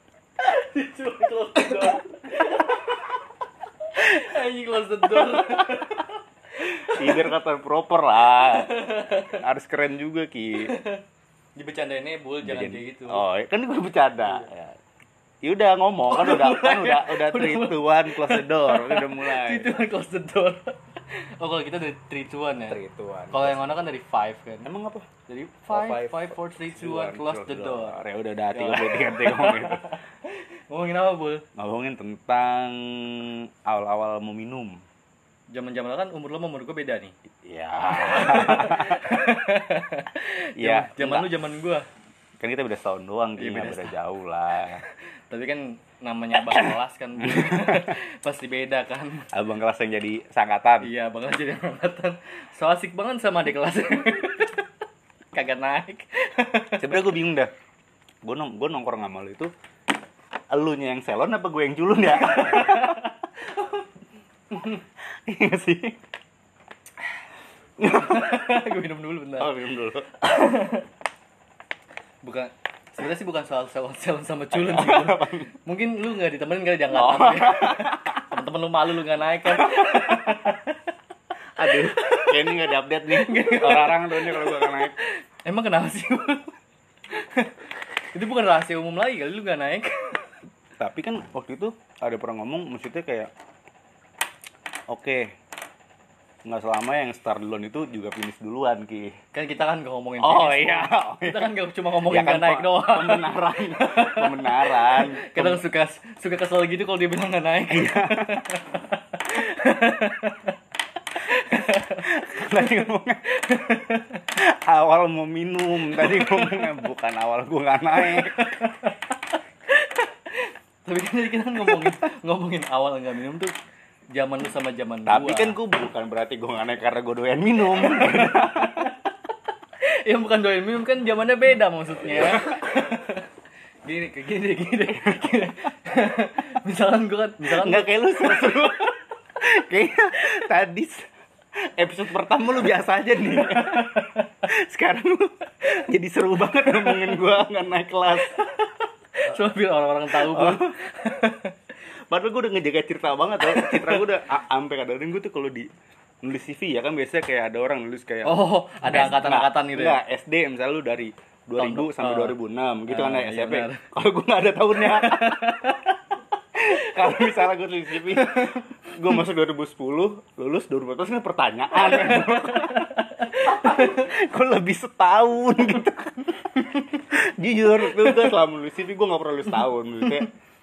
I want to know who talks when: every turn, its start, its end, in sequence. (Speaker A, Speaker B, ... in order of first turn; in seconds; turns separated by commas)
Speaker A: 0.4-3.0, Speaker A: 4.0-7.3, Speaker B: 5.3-5.7, Speaker B: 6.9-10.7, Speaker A: 8.4-9.3, Speaker A: 10.6-11.0, Speaker A: 11.6-13.2, Speaker B: 12.4-14.8, Speaker B: 15.4-19.7, Speaker A: 16.1-20.7, Speaker A: 21.4-22.8, Speaker B: 22.6-23.8, Speaker A: 23.3-24.7, Speaker B: 24.6-25.1, Speaker A: 25.3-28.0, Speaker B: 25.7-30.0, Speaker A: 28.5-31.4, Speaker B: 31.6-34.8, Speaker A: 35.5-37.1, Speaker B: 37.5-39.2, Speaker A: 37.9-41.9, Speaker B: 40.6-41.3, Speaker B: 42.4-44.8, Speaker A: 43.4-43.9, Speaker A: 44.8-49.3, Speaker B: 46.5-48.0, Speaker B: 49.3-50.9, Speaker A: 50.8-54.7, Speaker A: 55.3-57.1, Speaker B: 56.8-57.5, Speaker B: 58.2-59.5, Speaker B: 60.5-63.1, Speaker A: 62.2-63.1, Speaker B: 64.5-66.0, Speaker B: 67.8-68.6, Speaker A: 67.8-69.5, Speaker B: 69.4-70.1, Speaker A: 70.2-70.9, Speaker A: 72.2-80.8, Speaker B: 74.5-75.5, Speaker B: 76.9-78.2, Speaker B: 79.5-80.3, Speaker B: 81.6-85.0, Speaker A: 81.7-82.4, Speaker A: 83.1-86.5, Speaker A: 87.1-87.5, Speaker A: 88.1-90.3, Speaker B: 90.8-93.3, Speaker B: 94.9-95.3, Speaker B: 96.5-99.1, Speaker A: 99.3-110.5, Speaker B: 100.2-105.6, Speaker B: 107.7-108.5, Speaker A: 111.2-112.7, Speaker B: 111.7-113.2, Speaker A: 113.4-114.3, Speaker B: 114.4-118.5, Speaker A: 115.9-116.7, Speaker A: 118.0-123.5, Speaker B: 121.6-121.9, Speaker A: 124.1-125.6, Speaker B: 125.1-128.9, Speaker A: 127.7-129.1, Speaker A: 129.8-133.2, Speaker B: 132.2-132.5, Speaker A: 133.8-138.9, Speaker B: 134.9-135.5, Speaker B: 137.5-141.1, Speaker B: 141.6-148.4, Speaker A: 143.4-144.3, Speaker A: 146.7-147.2, Speaker A: 148.2-151.6, Speaker B: 150.1-150.8, Speaker B: 152.1-155.7, Speaker A: 153.4-154.1, Speaker B: 156.2-165.7, Speaker A: 158.2-160.0, Speaker A: 161.6-162.3, Speaker A: 162.9-163.8, Speaker A: 164.8-166.0, Speaker B: 166.6-180.3, Speaker A: 168.0-168.6, Speaker A: 171.8-174.0, Speaker A: 177.9-178.3